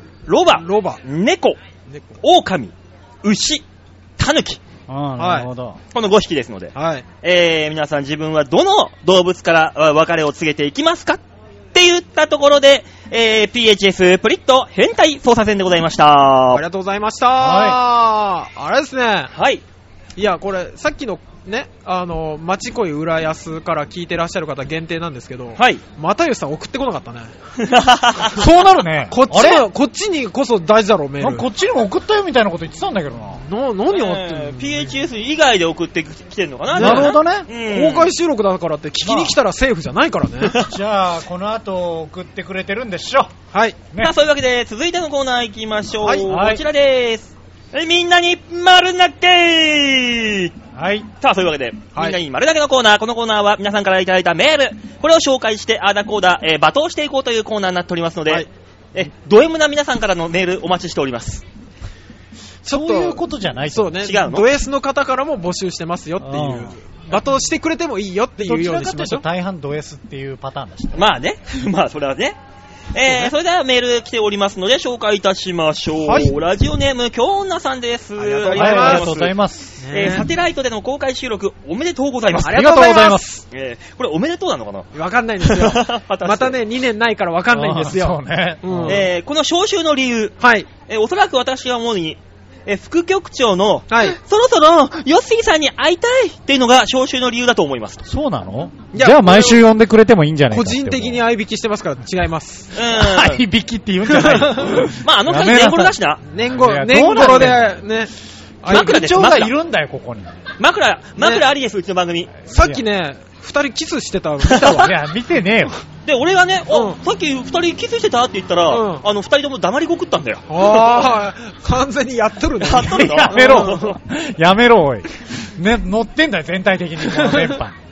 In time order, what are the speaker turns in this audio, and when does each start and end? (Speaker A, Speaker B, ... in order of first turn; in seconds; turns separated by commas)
Speaker A: 0.3-1.6, Speaker B: 0.5-1.0, Speaker B: 1.9-2.2, Speaker A: 2.2-3.6, Speaker A: 4.2-4.6, Speaker C: 4.9-5.8, Speaker B: 5.2-5.5, Speaker A: 5.9-11.2, Speaker B: 6.7-7.0, Speaker A: 11.7-16.6, Speaker B: 16.5-19.3, Speaker C: 17.4-17.8, Speaker A: 19.3-19.6, Speaker B: 20.2-27.3, Speaker A: 25.6-25.8, Speaker A: 27.6-28.4, Speaker C: 28.3-29.7, Speaker B: 29.1-31.4, Speaker C: 31.2-33.4, Speaker B: 33.5-35.0, Speaker A: 33.9-38.1, Speaker B: 36.7-37.1, Speaker C: 36.8-37.5, Speaker B: 37.7-40.5, Speaker C: 39.0-39.3, Speaker A: 40.4-40.7, Speaker C: 40.5-43.3, Speaker B: 43.5-43.8, Speaker A: 44.0-50.5, Speaker C: 46.3-46.6, Speaker C: 50.7-51.1, Speaker A: 51.2-61.4, Speaker B: 62.6-69.2, Speaker C: 62.7-64.0, Speaker A: 64.0-64.5, Speaker C: 66.2-66.8, Speaker C: 68.4-71.0, Speaker A: 70.9-72.4, Speaker A: 72.9-79.3, Speaker B: 76.0-76.3, Speaker C: 78.2-79.8, Speaker B: 78.3-79.1, Speaker B: 79.8-80.3, Speaker A: 79.9-82.7, Speaker C: 82.3-83.4, Speaker B: 82.4-83.4, Speaker A: 83.5-84.9, Speaker B: 84.9-89.0, Speaker A: 85.4-86.6, Speaker C: 87.5-89.0, Speaker A: 88.8-90.3, Speaker B: 90.4-90.7, Speaker A: 90.9-98.0, Speaker B: 93.9-94.2, Speaker C: 98.0-101.2, Speaker B: 98.9-99.6, Speaker B: 100.5-102.7, Speaker A: 102.7-103.4, Speaker C: 102.9-105.9, Speaker B: 104.1-104.8, Speaker A: 105.0-106.2, Speaker B: 106.3-109.0, Speaker C: 106.5-107.8, Speaker A: 108.7-109.5, Speaker C: 108.7-110.4, Speaker A: 110.6-112.3, Speaker C: 112.4-112.8, Speaker B: 112.5-115.0, Speaker C: 114.5-115.8, Speaker A: 116.0-121.1, Speaker B: 116.7-117.0, Speaker B: 118.7-119.0, Speaker B: 120.5-124.0, Speaker A: 122.6-124.0, Speaker C: 122.8-127.8, Speaker B: 127.1-127.6